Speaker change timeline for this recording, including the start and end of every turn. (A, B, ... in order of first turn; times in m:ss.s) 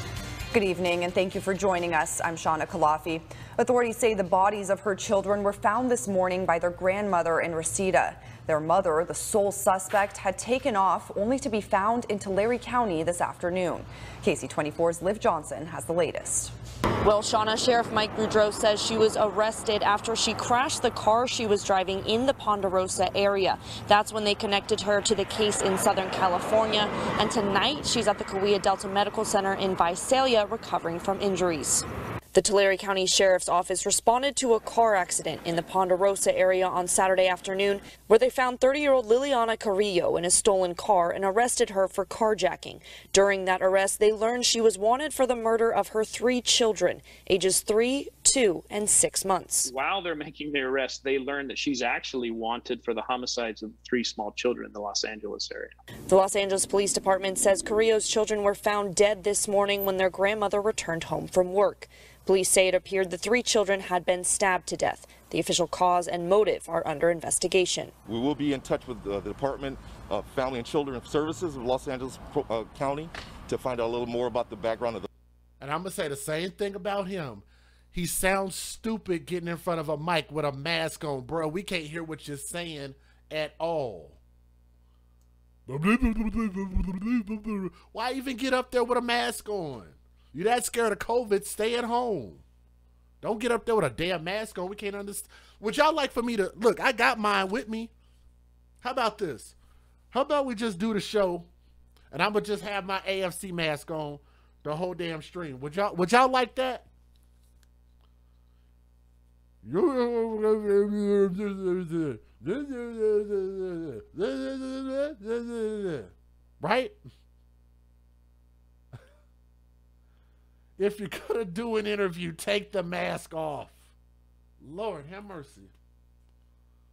0:00.5-0:16.5 A
0:17.7-0:26.7 B
0:27.3-0:31.7 B
0:32.4-0:49.6 B
0:49.6-0:55.7 C
0:56.1-1:07.9 B
1:08.1-1:15.1 D
1:15.6-1:24.2 E
1:25.7-1:32.4 E
1:33.2-1:37.9 E
1:38.8-1:39.6 E
1:40.1-1:41.5 E
1:42.1-1:46.9 E
1:49.6-1:57.0 E
2:00.8-2:03.9 E
2:04.6-2:05.7 E